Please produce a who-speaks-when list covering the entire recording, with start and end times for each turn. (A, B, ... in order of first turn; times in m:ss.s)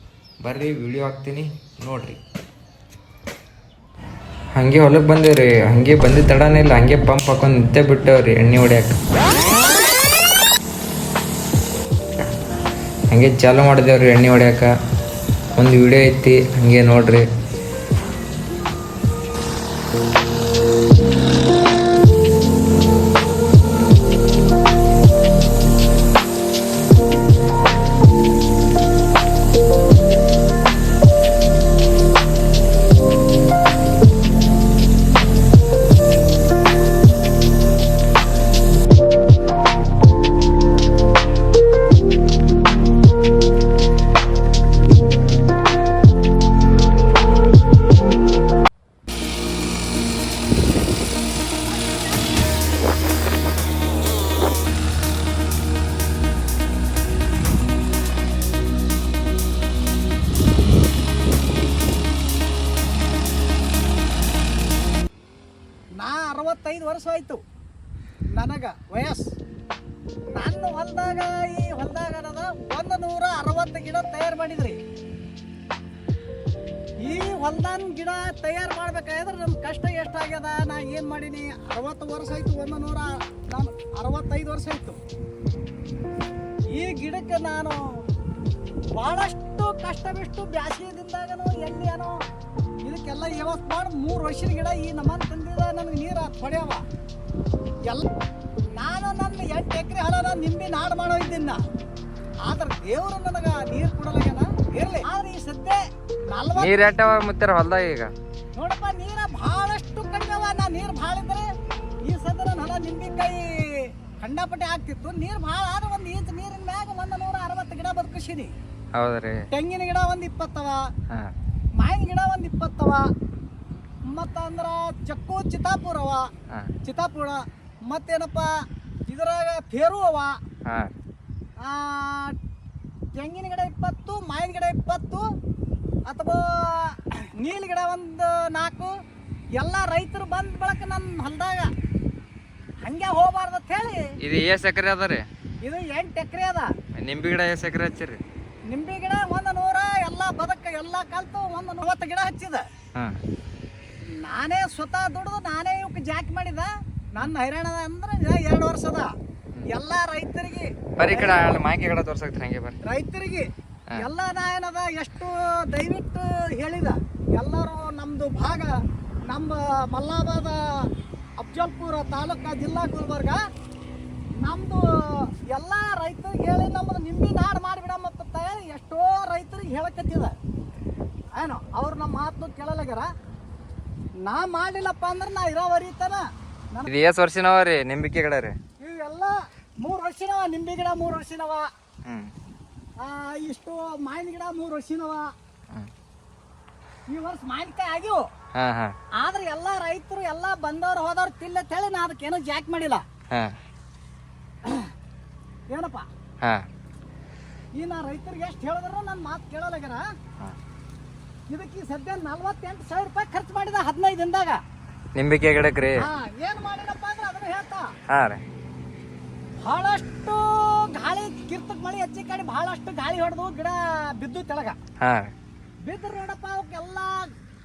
0:00.4-0:02.2 A
0:04.6-0:09.0 A
0:13.1-0:14.7 A
0:15.6-0:17.2 A
0:51.7-0:52.4 B
1:06.0-1:07.4 B
1:08.4-1:09.3 B
1:10.4-1:14.8 B
1:17.0-1:25.0 B
1:26.7-1:27.8 B
1:29.0-1:32.2 B
1:32.8-1:36.8 B
1:38.8-1:41.6 B
1:42.5-1:45.8 B
1:46.3-1:47.0 B
1:46.6-1:48.1 A
1:48.6-1:51.5 B
1:52.0-1:58.5 B
1:59.0-1:59.5 A
1:59.5-2:00.9 B
2:01.8-2:03.0 B
2:04.1-2:06.3 B
2:06.8-2:08.5 B
2:09.1-2:10.4 B
2:11.6-2:12.4 B
2:13.2-2:15.3 B
2:16.1-2:18.9 B
2:19.6-2:21.7 B
2:22.8-2:24.0 B
2:24.2-2:25.3 A
2:25.6-2:26.7 B
2:27.0-2:28.2 A
2:28.7-2:32.6 B
2:34.2-2:39.1 B
2:39.7-2:41.6 B
2:41.0-2:42.8 A
2:42.8-2:48.8 B
2:49.3-2:50.9 B
2:51.4-2:53.4 B
2:54.4-3:00.4 B
3:01.4-3:03.1 B
3:04.2-3:06.9 B
3:06.9-3:08.6 A
3:08.8-3:11.7 B
3:13.0-3:15.3 B
3:17.1-3:18.2 B
3:18.6-3:19.0 A
3:19.2-3:23.0 B
3:23.3-3:23.6 A
3:24.6-3:24.9 B
3:25.7-3:26.1 B
3:27.8-3:30.0 B
3:31.5-3:34.6 B
3:35.2-3:36.1 A
3:36.0-3:37.9 B
3:38.1-3:38.4 A
3:39.6-3:44.8 B
3:45.0-3:45.3 A
3:45.9-3:47.3 B